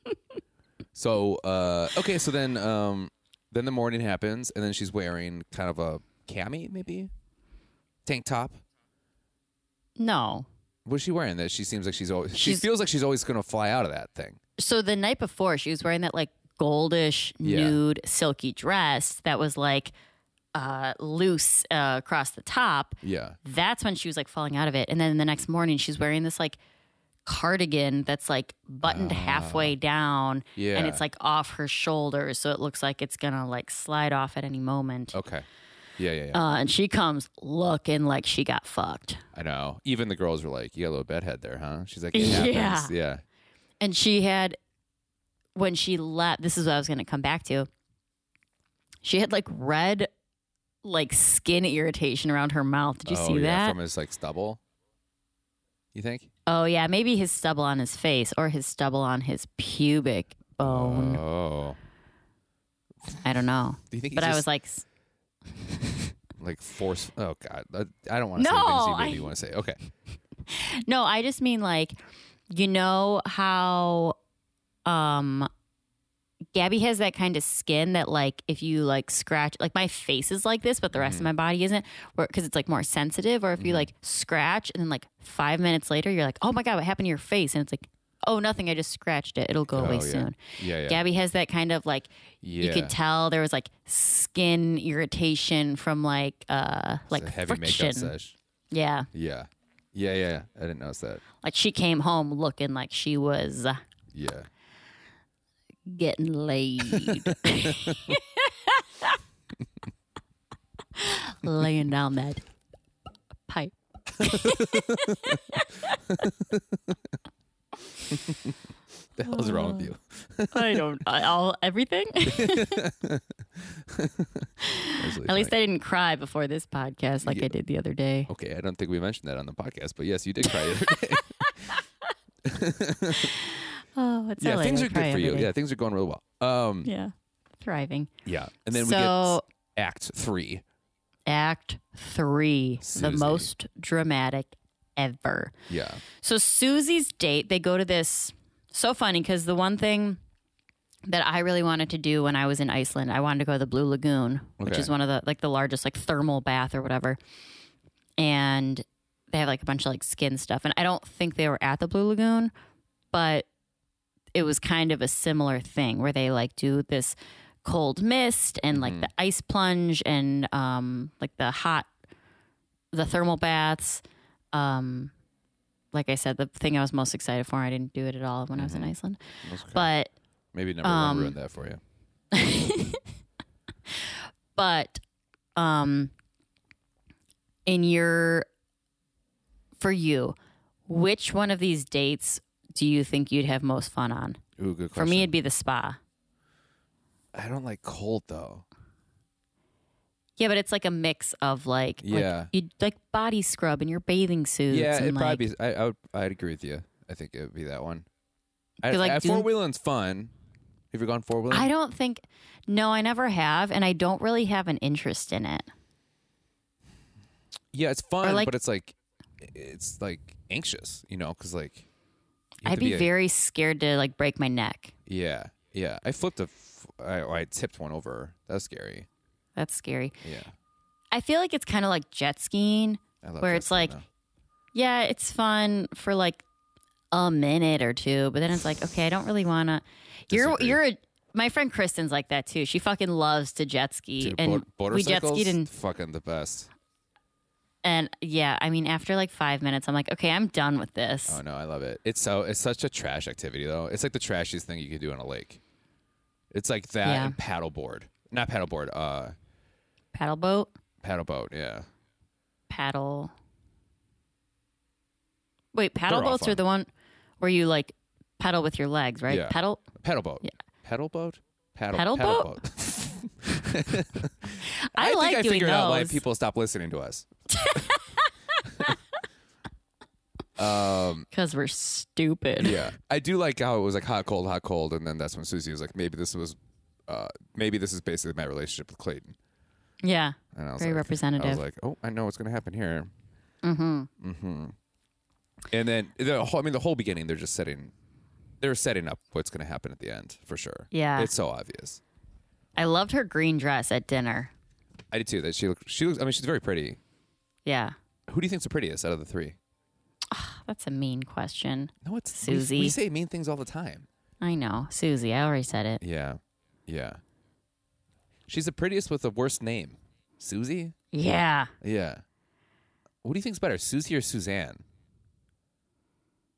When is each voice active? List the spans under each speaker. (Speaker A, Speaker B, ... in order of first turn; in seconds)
Speaker A: 0.9-7.1, 8.1-8.6, 10.9-14.4, 17.4-17.8, 23.0-23.4, 28.9-29.7, 30.6-31.0, 35.1-35.5, 36.0-36.4, 39.3-43.2, 53.1-54.6, 55.9-56.3, 60.6-61.8, 63.9-64.5, 66.4-69.8, 81.0-81.3, 83.6-83.9, 89.7-91.0, 92.4-93.0, 97.1-98.4, 99.1-101.2, 104.1-104.5, 106.9-108.1, 114.2-115.4, 116.2-117.0, 118.1-118.6, 119.2-120.8, 122.3-125.5, 127.2-127.5, 128.3-131.6, 132.4-133.3, 134.4-136.9, 138.2-140.6, 142.8-143.5, 145.7-146.0, 154.6-154.9, 168.7-169.1, 178.6-179.9, 180.5-181.8, 194.6-195.3, 197.3-198.6, 202.0-202.5, 204.7-208.1, 208.8-210.3, 210.9-211.7, 217.7-221.9, 222.6-223.1, 225.1-229.1, 230.2-230.5, 233.2-234.1, 240.3-240.8, 244.2-246.7, 251.3-255.6, 256.5-259.4, 261.0-261.9, 266.1-266.6, 269.3-277.8, 280.6-281.3, 282.6-289.4, 290.5-293.1, 294.2-294.8, 295.7-297.9, 298.6-302.0, 305.1-307.0, 308.3-309.6, 312.0-314.1, 316.0-317.2, 318.5-320.9, 321.8-322.2, 323.2-324.8
Speaker B: 10.0-10.5, 12.3-12.7, 14.6-19.9, 20.5-26.6, 27.2-35.2, 36.3-39.2, 42.1-42.9, 43.8-44.6, 45.5-47.7, 49.0-50.1, 50.8-53.8, 56.5-61.2, 63.2-64.8, 68.4-69.3, 70.5-72.0, 72.5-74.2, 74.8-75.5, 76.5-98.1, 98.7-99.1, 101.4-103.8, 105.9-109.2, 111.0-112.4, 113.5-116.3, 119.3-119.9, 120.5-122.8, 124.6-128.3, 130.5-131.8, 133.1-135.5, 136.8-138.1, 138.7-139.4, 141.3-145.5, 146.2-150.2, 151.1-157.2, 158.2-162.5, 163.1-163.5, 164.3-171.9, 172.9-175.1, 175.9-179.2, 179.7-180.1, 180.8-181.4, 182.3-183.0, 183.9-185.0, 185.6-186.1, 187.7-188.5, 189.8-190.4, 190.9-194.4, 194.9-196.0, 200.4-205.4, 208.8-209.5, 211.5-215.7, 218.2-218.5, 222.6-224.9, 229.6-230.2, 231.1-233.9, 234.7-236.4, 237.1-245.7, 247.8-251.4, 257.0-257.4, 260.1-260.7, 262.7-263.3, 265.7-266.9, 267.4-269.8, 271.9-272.5, 274.6-276.2, 277.5-278.3, 281.3-282.9, 290.0-291.6, 293.6-294.1, 300.9-301.3, 302.8-304.5, 307.7-307.9, 310.3-313.0, 314.4-316.0, 321.1-321.7